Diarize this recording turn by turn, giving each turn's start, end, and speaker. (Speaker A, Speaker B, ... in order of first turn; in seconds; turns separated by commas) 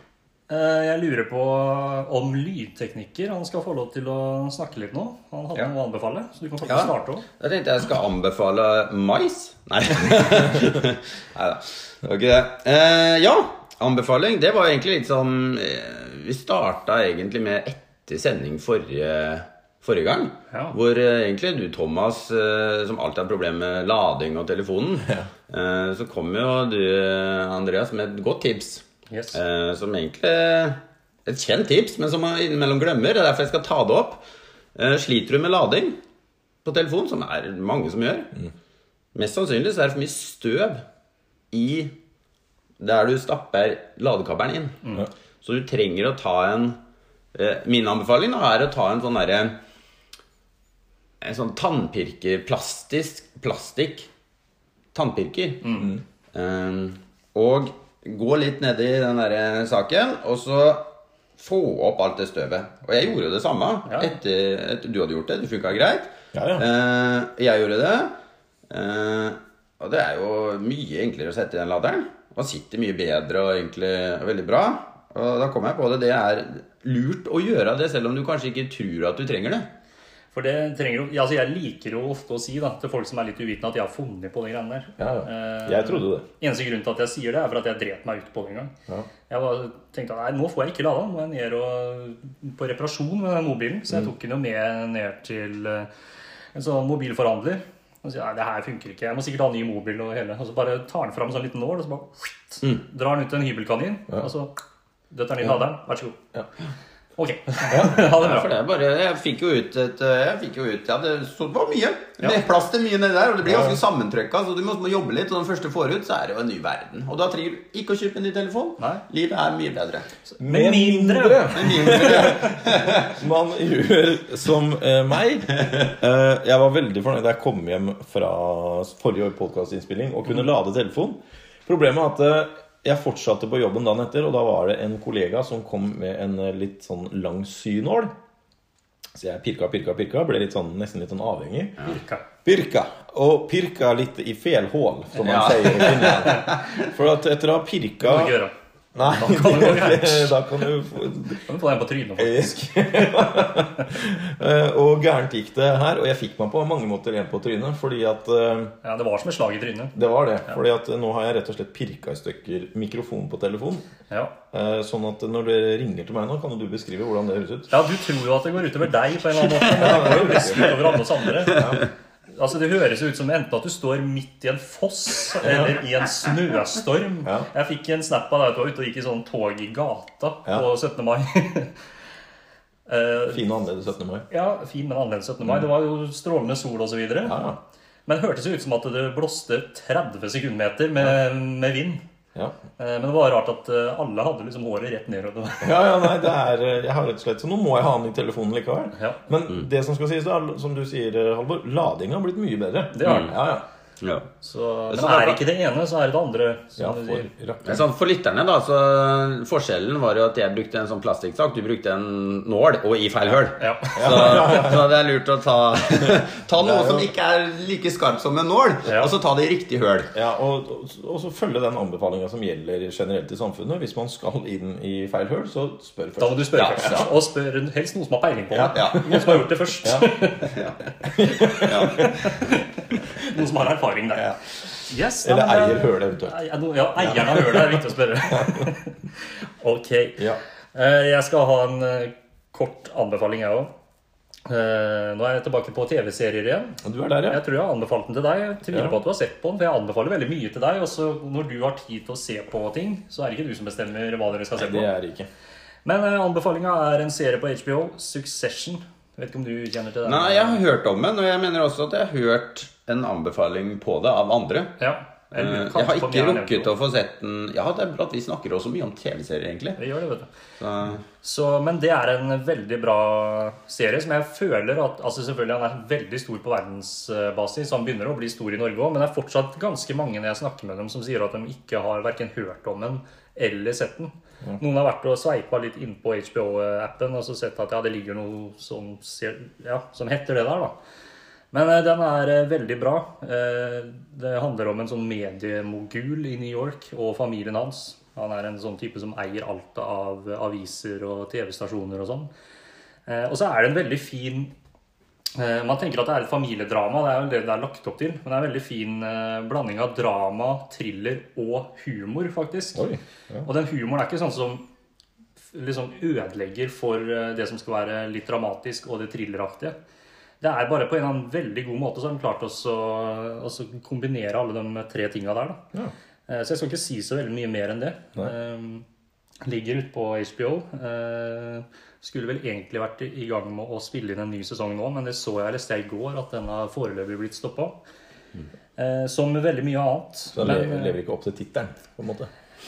Speaker A: 0.5-7.2, Speaker B: 6.6-34.2, Speaker A: 29.1-29.4, Speaker B: 34.7-36.0, Speaker B: 36.6-38.3, Speaker B: 39.1-40.8, Speaker B: 41.5-41.9, Speaker B: 42.8-44.8, Speaker B: 45.4-46.8, Speaker B: 47.3-49.5, Speaker B: 51.2-54.1, Speaker B: 54.9-68.1, Speaker A: 55.6-55.9, Speaker A: 63.9-64.1, Speaker C: 66.3-66.6, Speaker B: 68.7-79.7, Speaker A: 80.3-88.7, Speaker C: 85.0-86.2, Speaker A: 89.3-95.9, Speaker A: 96.5-104.5, Speaker A: 105.1-106.2, Speaker A: 107.2-108.5, Speaker C: 107.7-108.1, Speaker B: 108.0-120.1, Speaker A: 120.3-122.0, Speaker C: 120.4-138.1, Speaker B: 121.5-123.1, Speaker C: 139.1-141.9, Speaker A: 141.8-142.2, Speaker C: 142.4-148.3, Speaker B: 145.2-146.8, Speaker A: 148.0-148.5, Speaker C: 148.9-151.5, Speaker A: 149.0-150.4, Speaker A: 151.4-153.8, Speaker C: 152.2-158.7, Speaker A: 158.8-159.9, Speaker C: 159.9-163.9, Speaker C: 164.5-167.7, Speaker A: 167.7-171.7, Speaker C: 169.7-170.8, Speaker C: 171.5-171.8, Speaker A: 172.3-181.7, Speaker C: 175.4-175.8, Speaker A: 182.9-183.4, Speaker C: 183.3-184.2, Speaker A: 184.3-187.4, Speaker C: 187.2-187.6, Speaker A: 188.1-192.0, Speaker A: 192.8-196.3, Speaker C: 195.6-203.6, Speaker A: 202.9-203.3, Speaker B: 203.0-203.3, Speaker B: 204.0-204.3, Speaker A: 204.4-207.3, Speaker B: 204.9-205.4, Speaker C: 206.8-207.8, Speaker B: 207.6-220.1, Speaker A: 213.6-214.5, Speaker C: 213.9-214.8, Speaker C: 216.6-217.1, Speaker A: 218.8-219.1, Speaker C: 220.1-227.1, Speaker A: 226.2-230.5, Speaker B: 226.6-227.1, Speaker C: 228.5-230.2, Speaker B: 228.7-229.1, Speaker B: 230.5-230.8, Speaker C: 231.1-232.3, Speaker A: 231.5-234.3, Speaker B: 231.5-232.1, Speaker A: 234.9-239.0, Speaker C: 235.2-236.3, Speaker C: 236.9-238.7, Speaker A: 239.6-243.7, Speaker A: 244.4-254.9, Speaker C: 246.8-247.4, Speaker C: 248.7-249.0, Speaker C: 254.5-255.3, Speaker A: 255.8-260.6, Speaker B: 260.0-264.7, Speaker A: 264.8-266.7, Speaker B: 265.4-269.8, Speaker A: 269.8-270.3, Speaker B: 270.6-271.0, Speaker A: 271.2-290.7, Speaker A: 291.5-302.3, Speaker A: 303.1-304.5, Speaker A: 305.3-312.8, Speaker C: 312.7-313.5, Speaker A: 313.4-314.6, Speaker A: 315.5-319.7, Speaker A: 320.4-325.6, Speaker A: 326.3-328.8, Speaker A: 329.4-337.7, Speaker A: 338.8-341.0, Speaker C: 340.3-342.3